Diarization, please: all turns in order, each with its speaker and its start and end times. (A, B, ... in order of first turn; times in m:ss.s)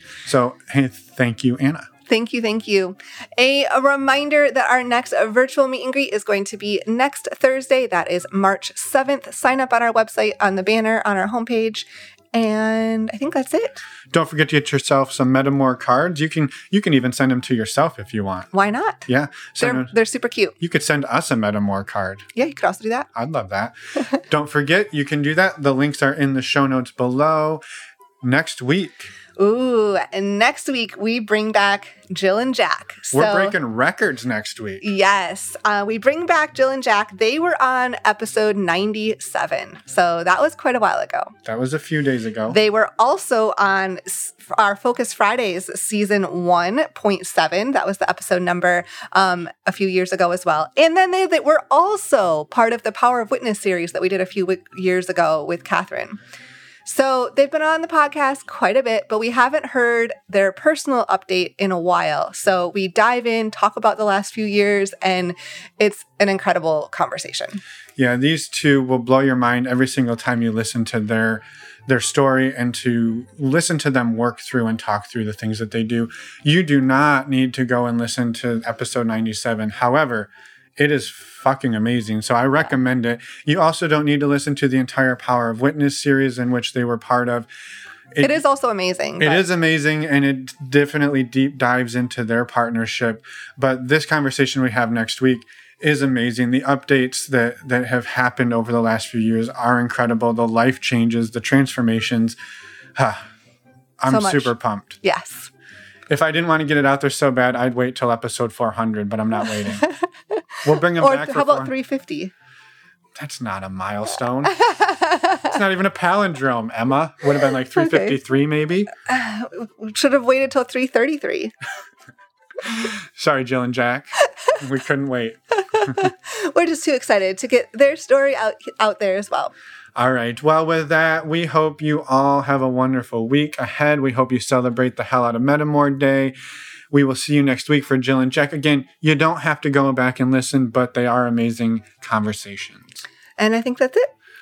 0:00.2-0:01.9 A
0:02.1-0:13.8 B
0:14.1-0:18.5 A
0:18.5-0:19.0 B
0:19.1-0:19.9 A
0:19.6-0:20.5 B
0:20.6-0:22.2 A
0:22.3-0:23.1 B
0:23.1-0:23.7 A
0:24.3-0:27.6 A
0:28.2-0:29.1 A
0:29.4-0:33.5 B
0:33.1-0:34.8 A
0:34.8-0:41.3 B
0:41.4-0:42.6 A
0:42.5-0:56.2 B
0:56.8-1:07.6 B
1:08.0-1:27.5 A
1:28.1-1:28.4 A
1:28.2-1:29.5 B
1:29.2-1:42.4 A
1:43.0-1:43.3 A
1:44.0-1:45.0 A
1:44.1-1:45.5 B
1:46.1-1:49.9 A
1:49.4-1:52.3 B
1:50.6-1:51.7 A
1:53.2-1:54.5 A
1:54.4-1:55.6 B
1:55.5-1:58.9 A
1:57.7-1:58.2 B
1:59.0-2:01.5 B
2:02.6-2:06.1 A
2:05.7-2:09.5 B
2:10.0-2:16.3 A
2:16.9-2:23.0 A
2:23.4-2:24.1 B